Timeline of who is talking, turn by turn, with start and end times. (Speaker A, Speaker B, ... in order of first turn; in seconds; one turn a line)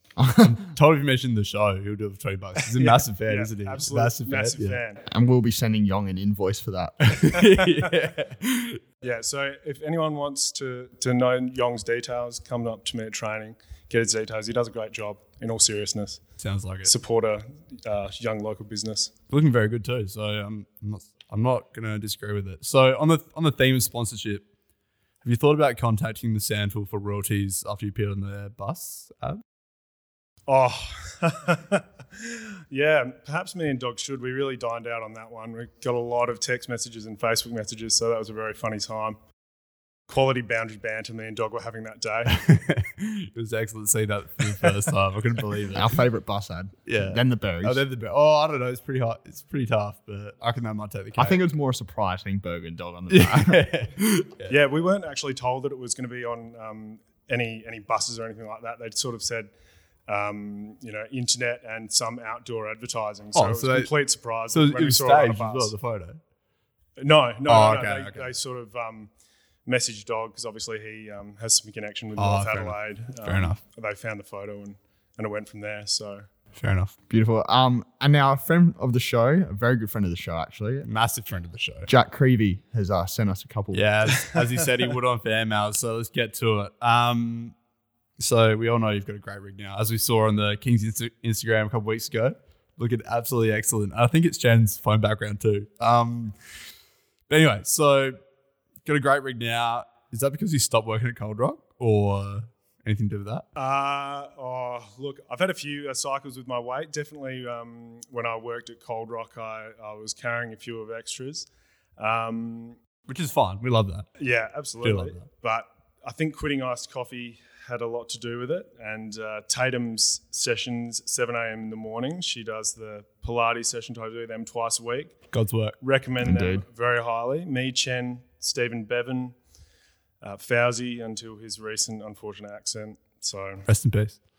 Speaker A: 0.2-0.6
Speaker B: 0.4-4.8
Speaker C: 2.8-5.0
Speaker A: 5.1-7.2
Speaker B: 7.0-8.8
Speaker C: 7.6-7.9
Speaker C: 9.0-16.2
Speaker B: 16.4-16.9
Speaker C: 16.8-19.1
Speaker B: 19.3-24.4
Speaker B: 25.2-29.4
Speaker C: 30.5-39.2
Speaker C: 40.1-42.4
Speaker B: 42.3-46.0
Speaker A: 45.7-47.8
Speaker B: 46.9-51.4
Speaker A: 51.2-53.6
Speaker B: 53.1-54.6
Speaker C: 54.5-59.5
Speaker C: 60.1-65.7
Speaker B: 63.3-63.9
Speaker B: 64.5-66.2
Speaker C: 67.0-69.1
Speaker B: 67.5-68.3
Speaker C: 69.7-76.2
Speaker B: 72.2-73.6
Speaker B: 76.5-76.9
Speaker A: 77.1-80.9
Speaker B: 80.8-81.9
Speaker A: 81.9-83.8
Speaker B: 83.7-87.5
Speaker C: 84.2-84.7
Speaker B: 88.2-96.4
Speaker B: 97.3-98.2
Speaker B: 98.8-103.4
Speaker C: 103.5-111.5
Speaker C: 112.0-112.8
Speaker B: 113.1-114.1
Speaker C: 114.2-125.2
Speaker B: 114.8-115.2
Speaker B: 125.3-125.8
Speaker C: 125.8-129.3
Speaker A: 126.2-126.6
Speaker C: 130.2-133.7
Speaker B: 133.7-134.2